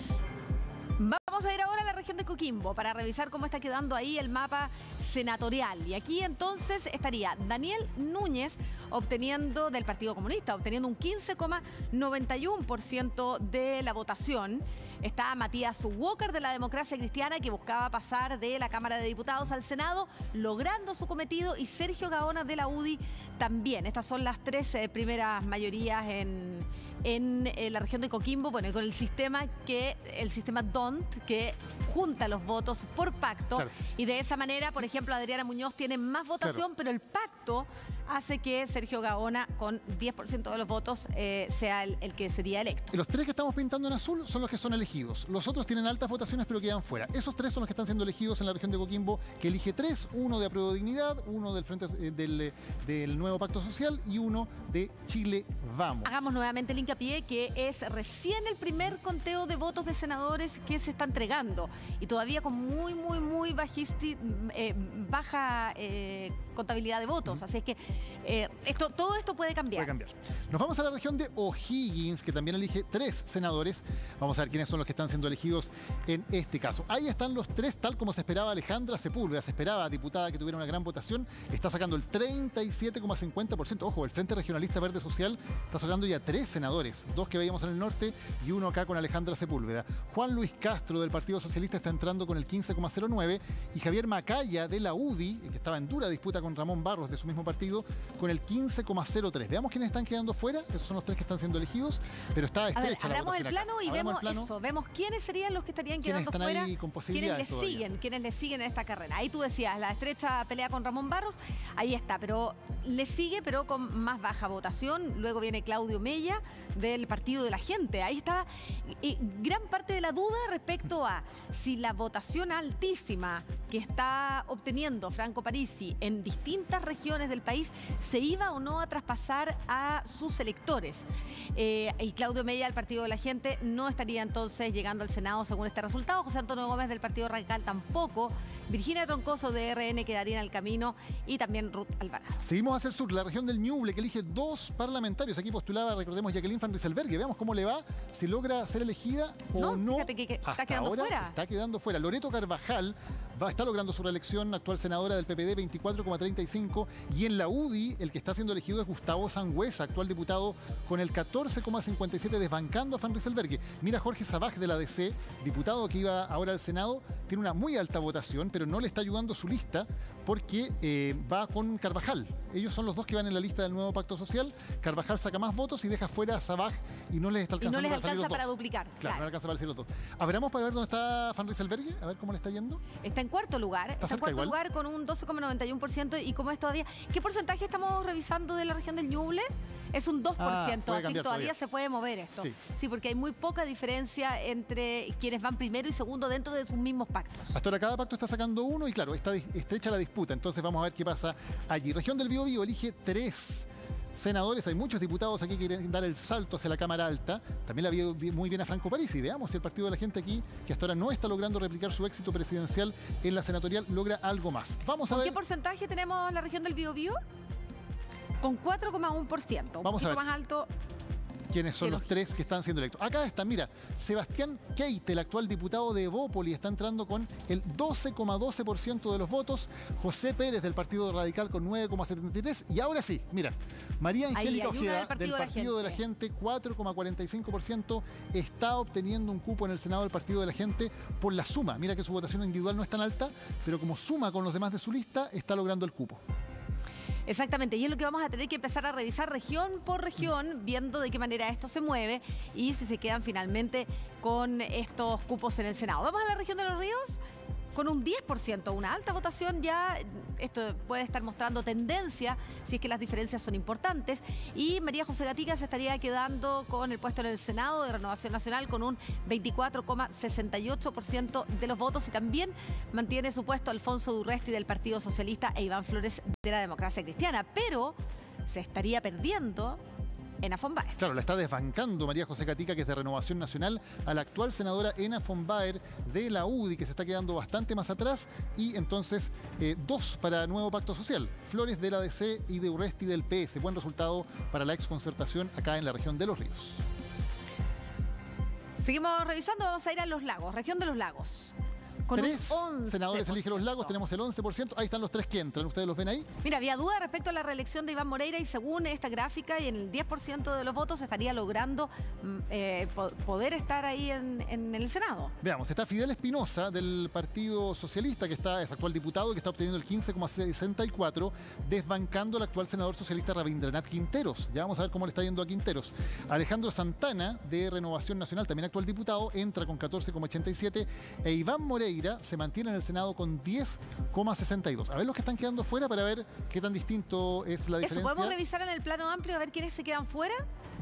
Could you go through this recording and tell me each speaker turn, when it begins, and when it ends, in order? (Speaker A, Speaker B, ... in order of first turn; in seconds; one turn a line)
Speaker A: 1.0-42.9
Speaker B: 42.9-56.2
Speaker A: 56.0-69.9
Speaker B: 69.8-104.5
Speaker A: 102.8-142.4
Speaker B: 106.0-107.9
Speaker B: 142.4-178.5
Speaker A: 149.6-151.4
Speaker A: 177.6-179.2
Speaker B: 179.0-182.8
Speaker A: 183.0-197.6
Speaker B: 184.0-184.6
Speaker B: 190.4-191.5
Speaker B: 197.5-215.4
Speaker A: 215.1-217.2
Speaker A: 218.4-220.7
Speaker B: 219.8-220.2
Speaker B: 221.5-246.2
Speaker A: 234.3-236.0
Speaker A: 247.3-257.2
Speaker A: 257.7-279.8
Speaker A: 280.4-281.0
Speaker B: 281.0-296.8
Speaker A: 298.8-301.6
Speaker A: 302.1-303.9
Speaker B: 302.1-306.3
Speaker A: 306.4-315.3
Speaker B: 315.4-338.4
Speaker A: 337.8-340.4